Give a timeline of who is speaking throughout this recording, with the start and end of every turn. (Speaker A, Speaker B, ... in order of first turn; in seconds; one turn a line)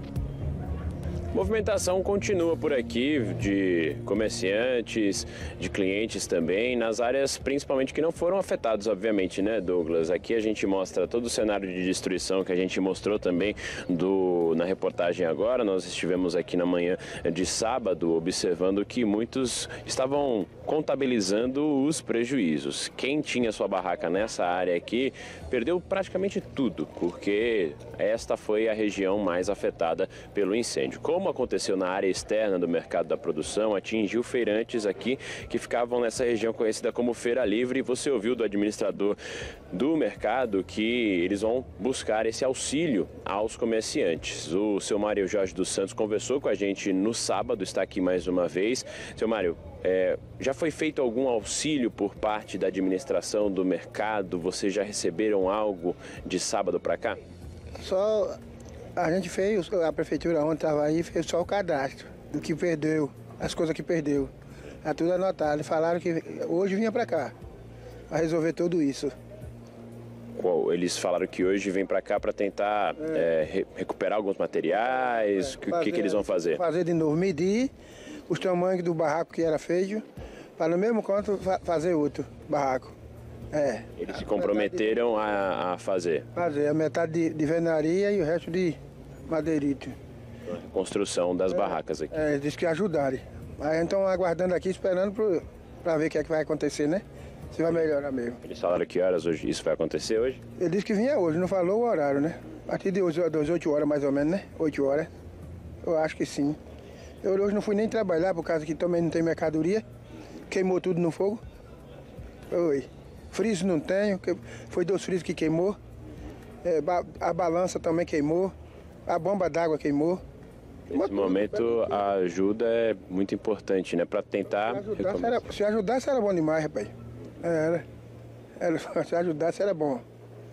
Speaker A: 1.3-39.2
Speaker A: 39.7-57.2
Speaker B: 57.8-58.4
Speaker B: 59.0-64.3
Speaker B: 64.8-67.3
Speaker B: 68.1-69.2
Speaker A: 70.4-76.6
Speaker B: 75.2-77.7
Speaker B: 78.3-80.0
Speaker B: 80.6-83.0
Speaker B: 83.5-84.9
Speaker A: 84.0-86.3
Speaker B: 86.3-90.0
Speaker A: 90.5-92.2
Speaker B: 91.5-98.4
Speaker A: 98.4-100.4
Speaker B: 100.6-105.1
Speaker B: 105.8-106.6
Speaker B: 107.2-109.8
Speaker B: 110.5-111.4
Speaker B: 112.5-115.8
Speaker B: 116.6-118.5
Speaker B: 119.1-120.2
Speaker A: 120.9-125.4
Speaker B: 120.9-122.0
Speaker B: 124.7-127.9
Speaker B: 128.6-130.0